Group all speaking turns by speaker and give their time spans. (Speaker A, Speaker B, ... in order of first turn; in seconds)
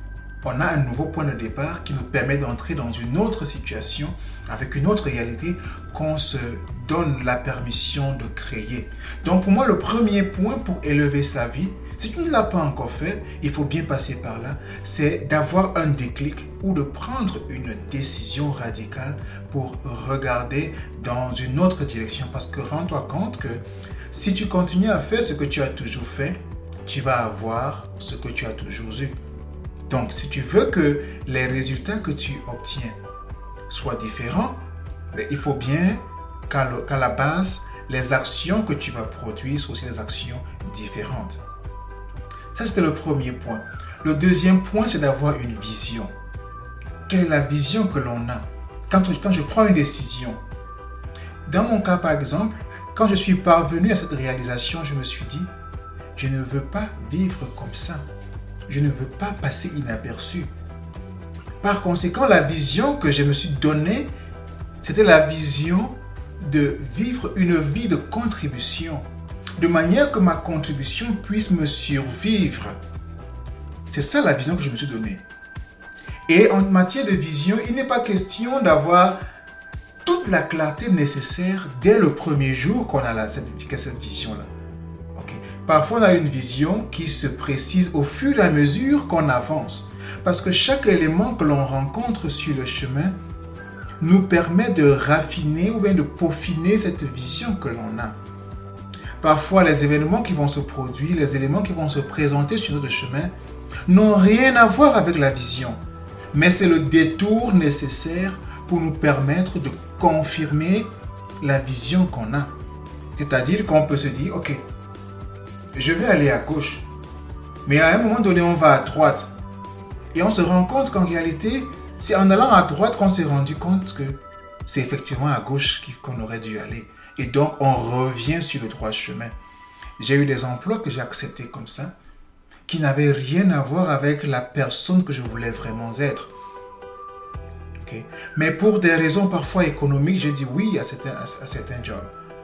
Speaker A: 0.4-29.1, 29.9-33.0, 33.7-34.6, 35.1-41.4, 42.5-46.1, 47.1-50.4, 51.5-55.5, 56.1-58.0, 58.7-60.5, 61.6-64.1, 64.8-69.0, 69.6-72.8, 73.9-75.2, 76.3-79.2, 80.0-84.5, 85.1-93.1, 94.0-98.2, 99.2-103.3, 103.8-105.8, 106.3-110.9, 111.4-112.5, 113.2-114.6, 115.7-116.8, 117.6-119.3, 120.1-129.3, 130.0-131.9, 132.7-136.3, 137.8-142.1